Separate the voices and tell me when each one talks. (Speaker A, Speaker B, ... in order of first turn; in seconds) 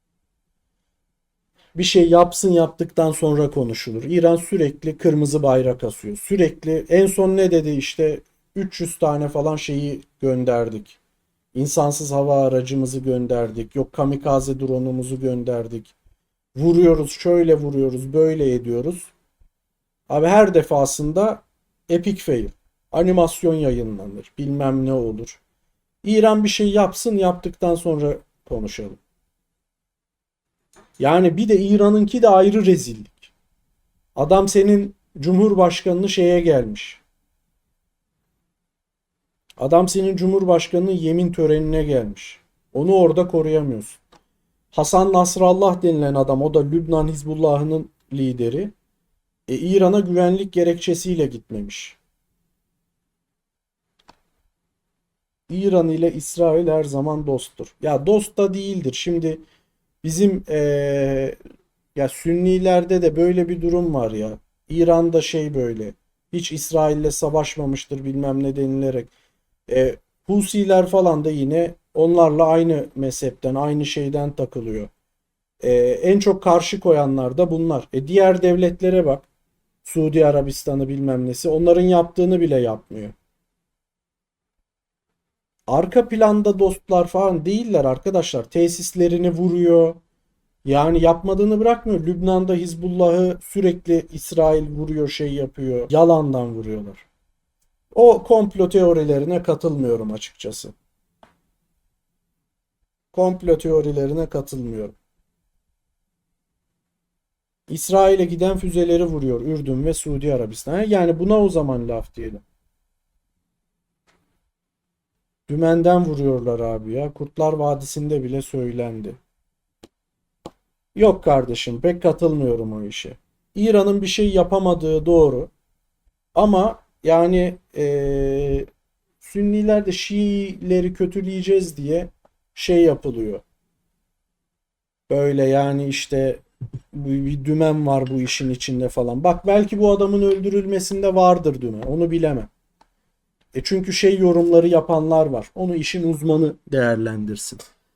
Speaker A: 1.8-11.0, 11.5-15.9, 16.6-19.1, 20.1-25.4, 26.0-29.0, 31.0-33.3, 34.2-37.0, 39.6-44.0, 44.7-48.7, 49.5-52.0, 55.5-59.4, 60.0-61.4, 62.0-69.1, 69.7-74.9, 75.6-79.3, 79.8-83.2, 85.7-90.0, 90.7-97.1, 97.9-100.7, 103.1-105.0, 107.7-112.4, 115.5-119.2, 121.0-125.5, 126.3-128.7, 129.2-133.4, 135.1-142.5, 143.6-147.6